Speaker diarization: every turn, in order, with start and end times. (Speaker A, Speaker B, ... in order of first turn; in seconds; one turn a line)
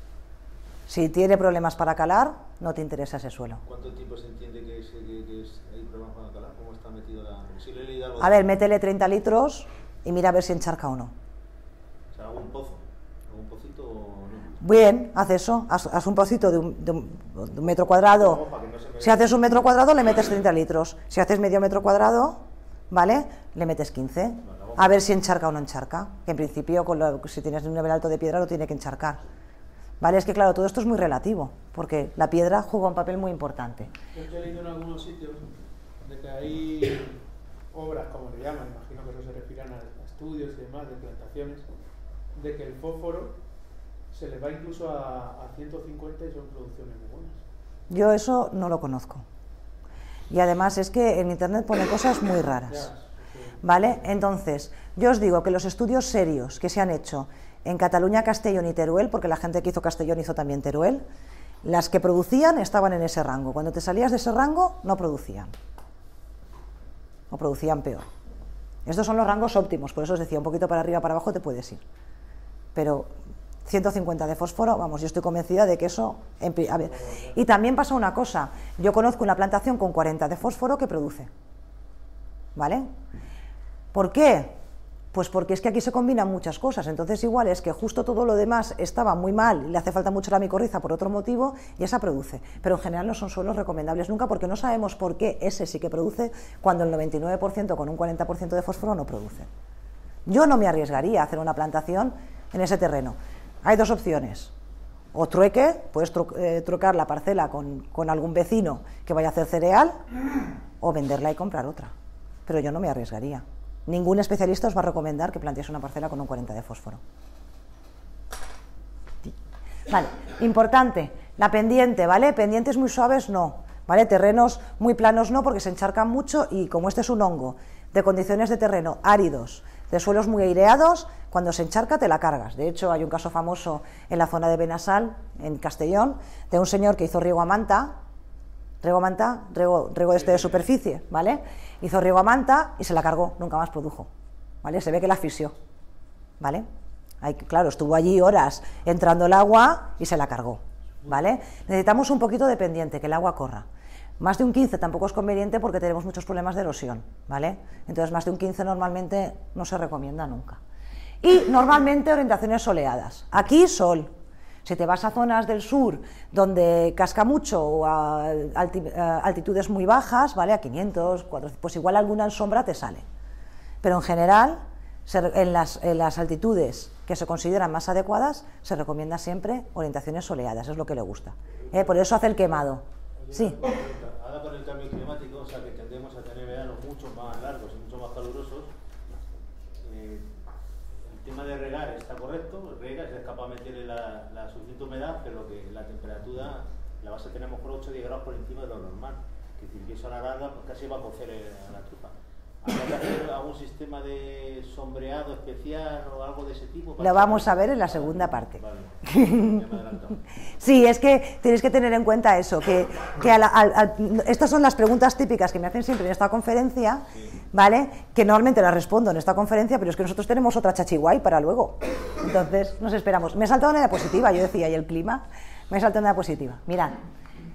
Speaker A: 0.9-3.6
Speaker B: 3.6-8.4
Speaker A: 8.2-11.1
Speaker B: 12.1-14.6
Speaker A: 14.6-18.4
Speaker B: 17.6-19.5
Speaker A: 19.0-29.2
Speaker B: 24.5-25.1
Speaker A: 30.0-33.9
Speaker C: 34.1-35.5
Speaker C: 36.0-37.2
Speaker C: 37.7-41.6
Speaker C: 42.3-43.4
Speaker C: 44.1-47.4
Speaker A: 47.9-49.2
Speaker A: 50.3-52.9
Speaker C: 52.7-53.6
Speaker A: 53.6-61.0
Speaker A: 61.6-65.5
Speaker A: 67.3-68.0
Speaker A: 68.8-71.8
Speaker A: 72.7-73.1
Speaker A: 73.7-81.3
Speaker A: 82.5-82.9
Speaker A: 83.9-84.5
Speaker A: 85.1-99.5
Speaker A: 100.2-104.5
Speaker A: 105.1-110.0
Speaker A: 110.8-111.9
Speaker A: 112.5-117.0
Speaker A: 119.9-137.9
Speaker A: 138.8-144.1
Speaker A: 144.6-145.5
Speaker A: 146.4-146.7
Speaker A: 147.2-153.6
Speaker A: 154.2-160.6
Speaker A: 161.2-164.1
Speaker A: 164.6-173.0
Speaker A: 173.8-183.6
Speaker B: 183.2-188.7
Speaker B: 189.8-190.3
Speaker B: 191.0-210.2
Speaker A: 207.0-209.6
Speaker A: 210.6-227.0